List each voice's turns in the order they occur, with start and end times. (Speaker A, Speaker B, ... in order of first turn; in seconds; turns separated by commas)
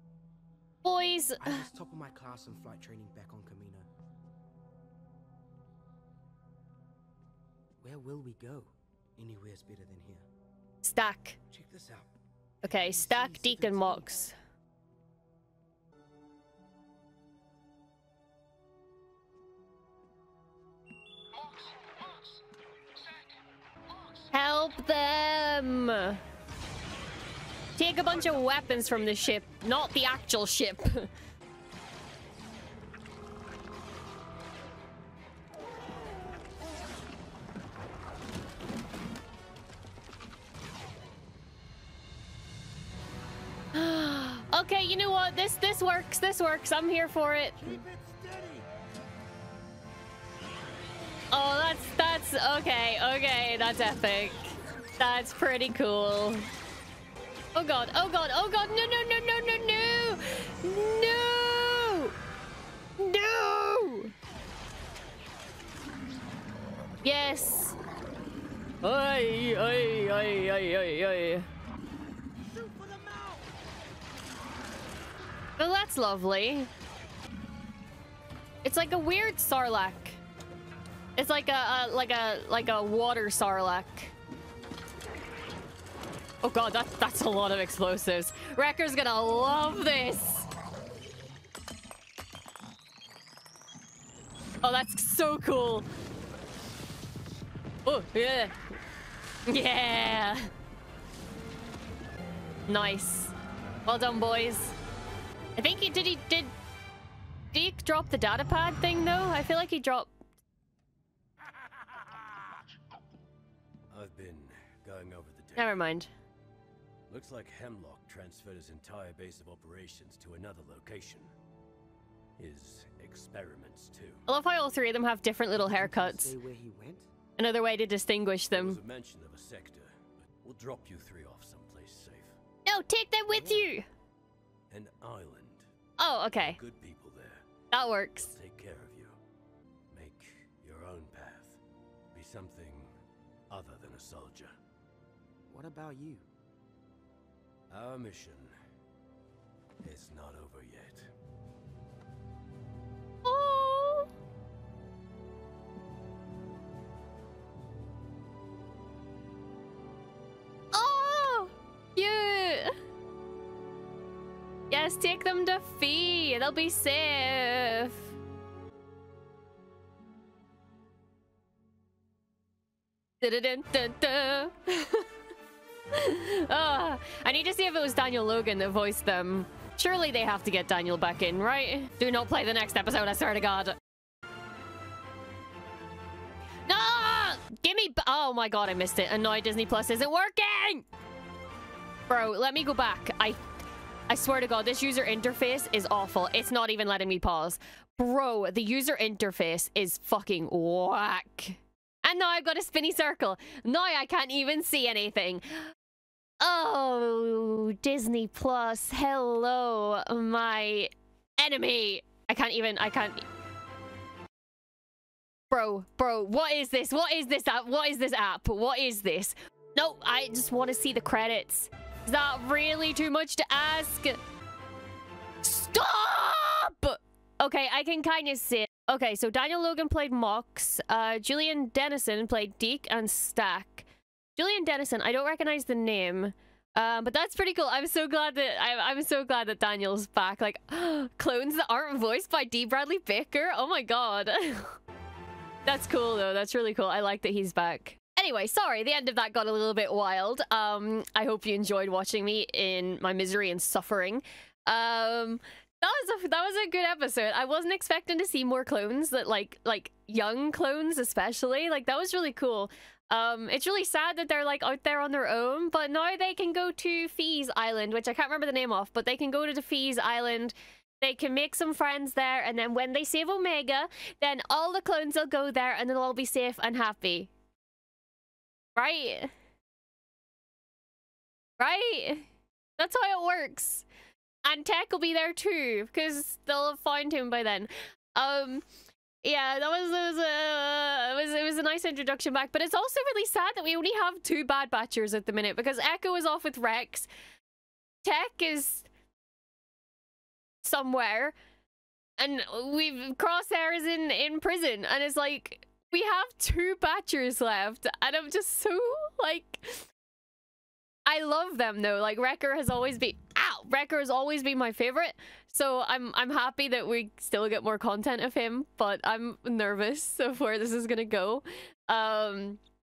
Speaker A: 0.8-1.7, Speaker B: 1.4-3.9, Speaker C: 7.8-8.7, Speaker B: 9.2-10.3, Speaker A: 10.8-11.4, Speaker B: 11.5-12.1, Speaker B: 12.6-14.3, Speaker A: 12.6-14.3, Speaker A: 24.3-26.2, Speaker A: 27.8-31.1, Speaker A: 43.7-47.7, Speaker C: 47.8-48.6, Speaker B: 48.1-48.3, Speaker A: 51.3-56.5, Speaker A: 57.5-62.1, Speaker A: 63.0-64.1, Speaker A: 67.0-67.8, Speaker A: 68.8-71.5, Speaker B: 72.5-73.5, Speaker A: 75.6-76.7, Speaker A: 78.6-80.2, Speaker A: 81.2-84.1, Speaker A: 86.4-90.5, Speaker A: 94.6-95.9, Speaker A: 97.8-98.5, Speaker A: 99.5-100.5, Speaker A: 102.7-103.3, Speaker A: 103.9-104.8, Speaker A: 105.6-106.5, Speaker A: 107.5-110.1, Speaker D: 113.9-115.8, Speaker A: 115.6-116.1, Speaker D: 117.1-121.3, Speaker D: 122.4-124.3, Speaker A: 124.3-126.4, Speaker C: 125.5-127.1, Speaker A: 127.4-128.8, Speaker D: 128.5-132.4, Speaker A: 132.7-133.9, Speaker C: 133.3-133.7, Speaker D: 134.7-135.7, Speaker A: 136.0-136.6, Speaker D: 136.3-137.5, Speaker A: 137.7-138.3, Speaker D: 138.2-139.2, Speaker D: 139.9-141.6, Speaker D: 142.1-142.9, Speaker D: 143.5-144.6, Speaker C: 145.5-146.3, Speaker D: 147.7-148.5, Speaker D: 149.8-151.1, Speaker A: 153.2-154.1, Speaker A: 160.7-162.7, Speaker A: 164.7-168.1, Speaker A: 173.2-175.1, Speaker A: 175.9-183.8, Speaker A: 186.7-190.8, Speaker A: 192.1-193.4, Speaker A: 194.1-205.7, Speaker A: 206.4-213.2, Speaker A: 215.5-224.2, Speaker A: 225.4-244.8, Speaker A: 245.7-277.3, Speaker A: 278.8-279.3, Speaker A: 281.6-283.9, Speaker A: 284.4-288.6, Speaker A: 289.2-297.1, Speaker A: 298.0-298.9, Speaker A: 300.6-301.4, Speaker A: 302.2-309.9, Speaker A: 311.1-322.6